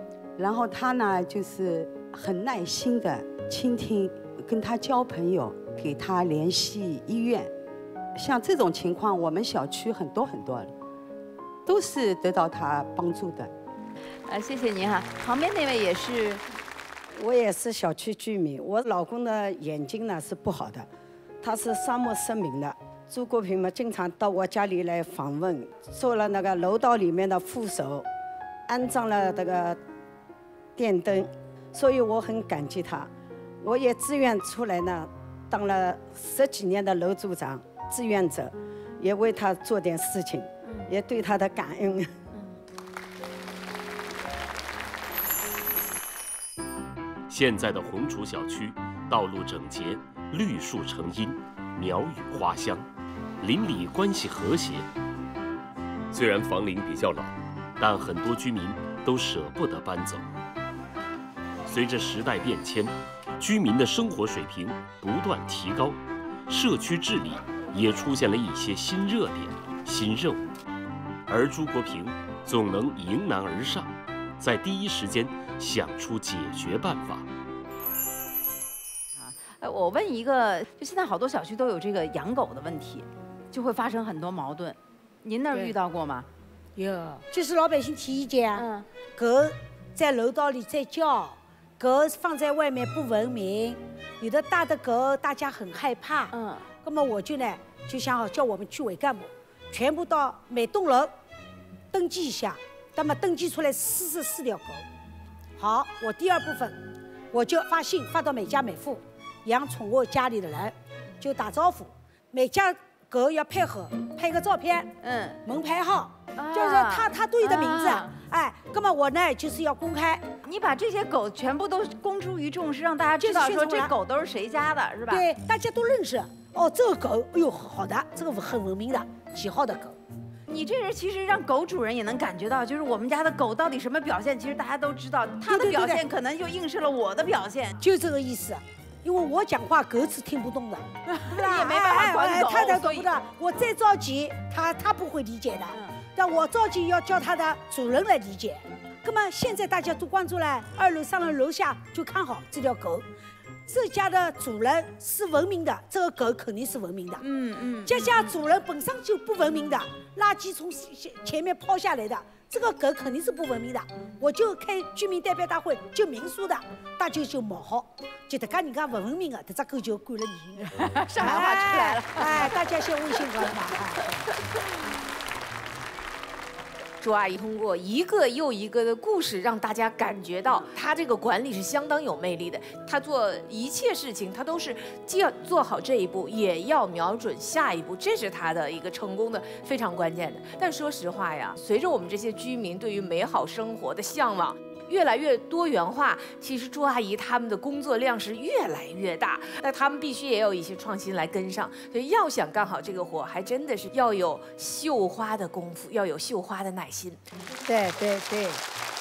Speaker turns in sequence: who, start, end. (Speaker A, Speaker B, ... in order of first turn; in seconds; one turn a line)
Speaker A: 0.4-7.5
Speaker A: 8.2-10.7
Speaker A: 11.7-13.5
Speaker B: 14.1-16.4
Speaker C: 17.1-20.9
Speaker C: 21.4-28.1
Speaker C: 28.7-29.8
Speaker C: 30.8-33.1
Speaker C: 33.6-42.1
Speaker D: 47.3-52.9
Speaker D: 53.4-54.9
Speaker D: 56.1-60.2
Speaker D: 61.6-70.5
Speaker D: 71.3-77.3
Speaker B: 79.2-86.3
Speaker E: 86.8-101.1
Speaker B: 88.5-88.8
Speaker B: 96.3-96.7
Speaker E: 101.9-104.8
Speaker E: 105.6-106.8
Speaker E: 107.3-114.9
Speaker B: 115.0-115.4
Speaker E: 115.4-120.2
Speaker B: 116.3-118.1
Speaker B: 120.4-125.3
Speaker E: 123.2-123.9
Speaker E: 125.1-130.0
Speaker B: 130.5-137.8
Speaker E: 135.4-136.0
Speaker E: 137.8-153.1
Speaker B: 141.0-143.2
Speaker E: 153.7-157.2
Speaker B: 157.2-158.3
Speaker E: 157.8-174.2
Speaker B: 170.8-172.6
Speaker B: 173.2-173.5
Speaker F: 177.0-207.2
Speaker E: 207.7-208.6